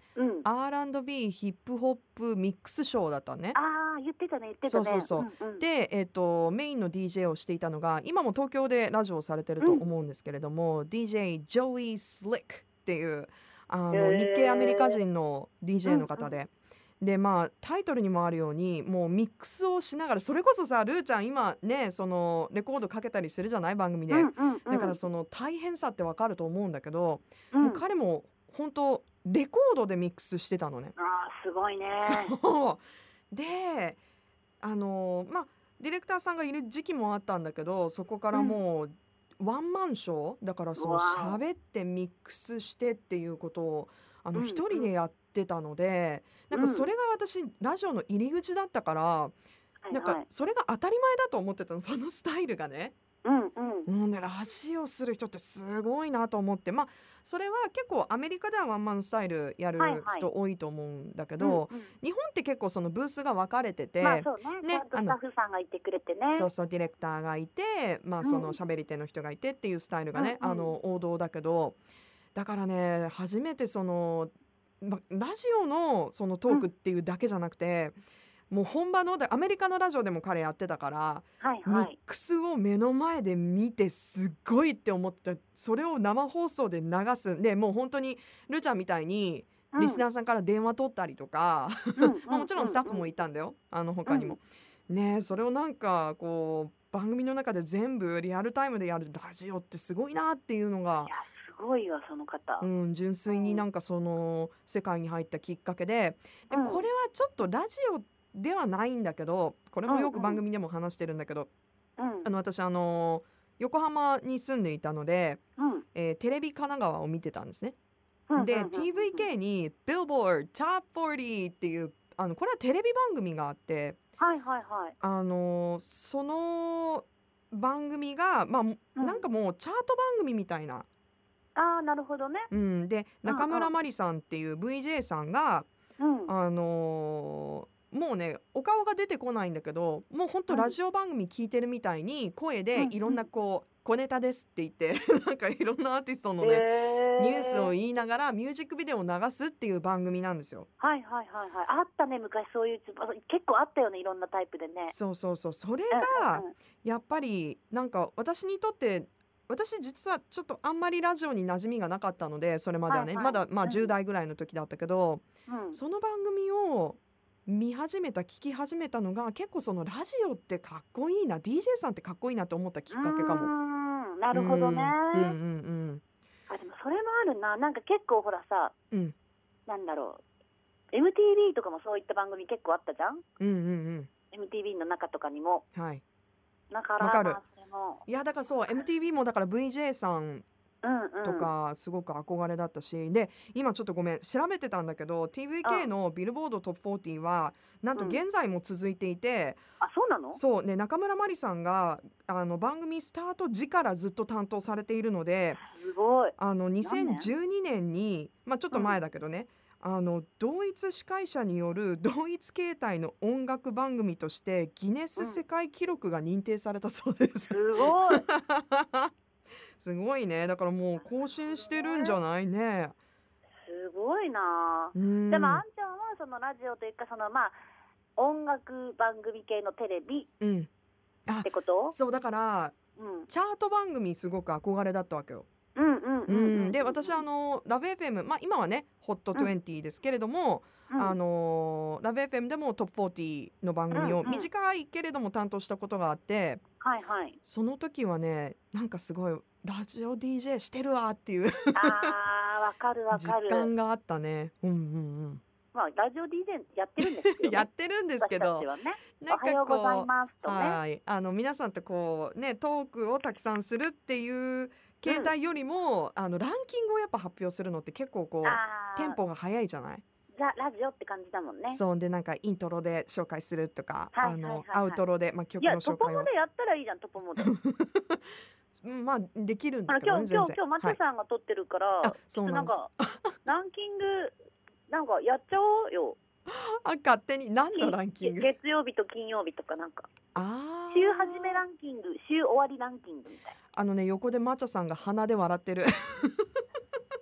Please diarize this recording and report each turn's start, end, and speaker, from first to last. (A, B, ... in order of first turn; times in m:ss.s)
0:00.2-0:00.4 A
0:00.4-0:03.6 B
0:03.5-0:05.6 A
0:04.6-0:30.9 B
0:13.9-0:15.0 A
0:15.8-0:16.3 A
0:24.1-0:25.0 A
0:27.5-0:27.8 A
0:31.0-0:32.4 A
0:31.9-0:34.0 B
0:34.6-0:49.4 B
0:38.3-0:38.6 A
0:40.8-0:41.4 A
0:44.3-0:44.9 A
0:46.5-0:46.9 A
0:49.8-0:50.2 A
0:49.9-0:52.9 B
0:53.2-0:53.9 A
0:53.9-1:05.2 B
0:59.8-1:00.3 A
1:01.4-1:01.9 A
1:04.0-1:06.5 A
1:06.3-1:11.8 B
1:08.2-1:08.6 A
1:10.1-1:10.7 A
1:12.3-1:18.0 B
1:18.5-1:41.1 B
1:21.4-1:22.0 A
1:29.7-1:30.0 A
1:32.0-1:33.1 A
1:34.0-1:34.4 A
1:41.1-1:42.7 A
1:42.6-1:51.5 B
1:43.3-1:43.6 A
1:46.5-1:46.8 A
1:49.9-1:50.4 A
1:52.0-1:52.3 A
1:52.2-1:55.4 B
1:55.6-1:55.8 A
1:55.9-1:57.7 B
1:58.3-1:59.3 A
1:58.4-2:04.0 B
2:04.2-2:04.9 A
2:05.0-2:10.8 B
2:09.0-2:09.2 A
2:11.6-2:12.5 A
2:12.5-2:15.7 B
2:13.2-2:13.7 A
2:16.0-2:16.3 A
2:16.3-2:30.7 B
2:20.5-2:20.7 A
2:22.8-2:23.2 A
2:26.4-2:27.7 A
2:30.8-2:35.0 A
2:34.9-2:53.5 B
2:35.9-2:36.5 A
2:42.9-2:43.9 A
2:45.5-2:45.8 A
2:52.9-2:55.3 A
2:54.3-2:56.0 B
2:56.5-2:58.7 A
2:59.7-3:00.2 A
3:00.9-3:03.2 A
3:03.4-3:04.1 B
3:04.3-3:05.6 A
3:05.7-3:06.0 B
3:06.7-3:08.1 A
3:07.0-3:07.4 B
3:08.1-3:10.4 B
3:10.8-3:11.5 A
3:11.2-3:19.6 B
3:15.6-3:15.9 A
3:18.0-3:18.2 A
3:19.8-3:20.4 A
3:20.3-3:25.6 B
3:25.6-3:27.3 A
3:26.4-3:39.1 B
3:28.7-3:29.0 A
3:37.5-3:38.2 A
3:39.8-3:42.9 B
3:41.4-3:42.2 A
3:43.6-3:47.6 A
3:44.9-3:45.6 B
3:48.2-3:50.3 A
3:50.4-3:50.7 B
3:51.3-3:52.8 B
3:51.4-3:52.0 A
3:53.0-3:53.3 A
3:53.3-3:55.5 B
3:55.8-3:57.2 A
3:56.3-4:06.6 B
4:00.9-4:01.2 A
4:03.9-4:04.5 A
4:06.8-4:07.4 A
4:07.4-4:12.1 B
4:11.7-4:13.7 A
4:13.1-4:15.4 B
4:15.7-4:17.7 A
4:17.0-4:18.7 B
4:18.2-4:20.8 A
4:19.2-4:30.0 B
4:25.0-4:25.3 A
4:28.4-4:29.2 A
4:30.4-4:31.8 A
4:31.7-4:36.3 B
4:34.1-4:35.0 A
4:35.6-4:37.5 A
4:37.4-4:38.2 B
4:38.8-4:41.0 B
4:39.9-4:42.9 A
4:42.0-4:43.4 B
4:43.4-4:44.4 A
4:44.9-4:46.2 A
4:46.5-4:48.5 B
4:47.7-4:50.1 A
4:50.3-4:51.6 B
4:50.9-4:53.6 A
4:53.7-4:56.5 B